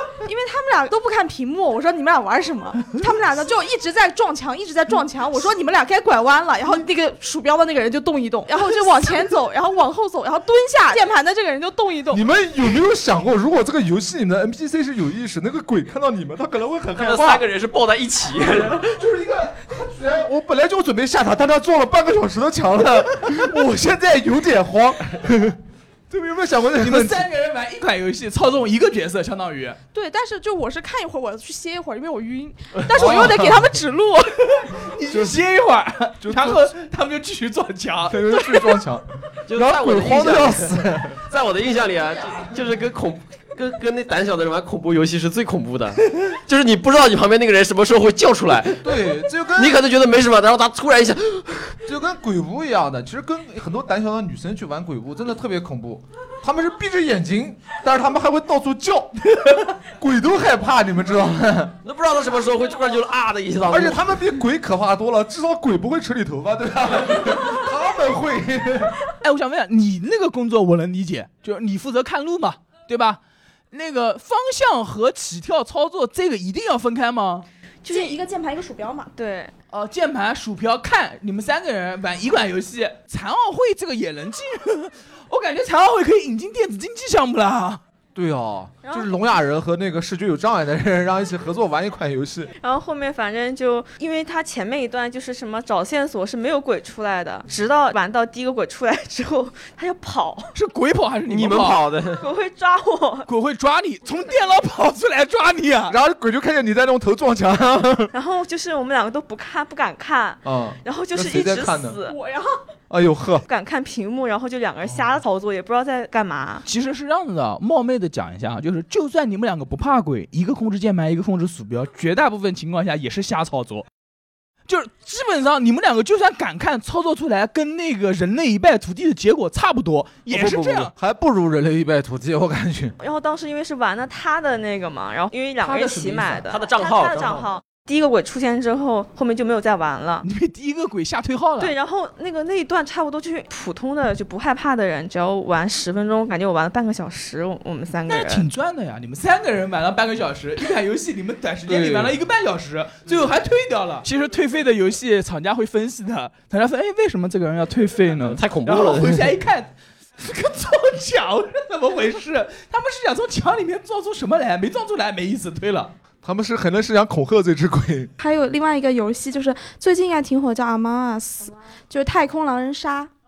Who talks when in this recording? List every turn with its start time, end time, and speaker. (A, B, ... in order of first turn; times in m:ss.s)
0:00.2-0:12.2 A
0:12.1-0:17.4 B
0:17.0-0:19.0 C
0:18.8-0:25.6 B
0:26.1-0:27.2 B
0:26.8-0:29.8 D
0:29.9-0:34.7 A
0:32.9-0:33.2 C
0:32.9-0:33.6 B
0:34.7-0:38.6 D
0:35.1-0:35.4 B
0:36.2-0:36.7 B
0:38.1-0:41.2 B
0:39.5-0:48.9 C
0:48.8-0:49.8 B
0:49.5-0:51.8 C
0:51.8-1:01.7 B
1:01.8-1:04.2 C
1:03.7-1:08.9 B
1:09.2-1:13.2 D
1:13.7-1:17.4 D
1:17.8-1:18.2 E
1:17.9-1:19.1 A
1:19.1-1:19.5 E
1:19.7-1:27.8 D
1:28.1-1:32.5 B
1:28.8-1:29.1 E
1:32.6-1:40.5 E
1:40.5-1:41.8 D
1:41.3-1:42.3 C
1:42.1-1:43.3 E
1:43.3-1:46.0 D
1:45.9-1:48.1 B
1:48.1-1:52.2 E
1:50.4-1:52.0 B
1:52.1-1:52.4 A
1:52.9-1:53.4 B
1:53.4-1:56.6 E
1:56.6-2:03.8 D
2:04.7-2:10.9 D
2:10.3-2:13.0 B
2:13.0-2:20.2 E
2:15.6-2:16.4 D
2:16.5-2:17.5 C
2:20.2-2:21.7 D
2:21.6-2:28.5 E
2:28.1-2:45.9 D
2:31.7-2:32.2 B
2:38.3-2:39.3 C
2:46.2-2:48.1 B
2:48.2-2:53.1 A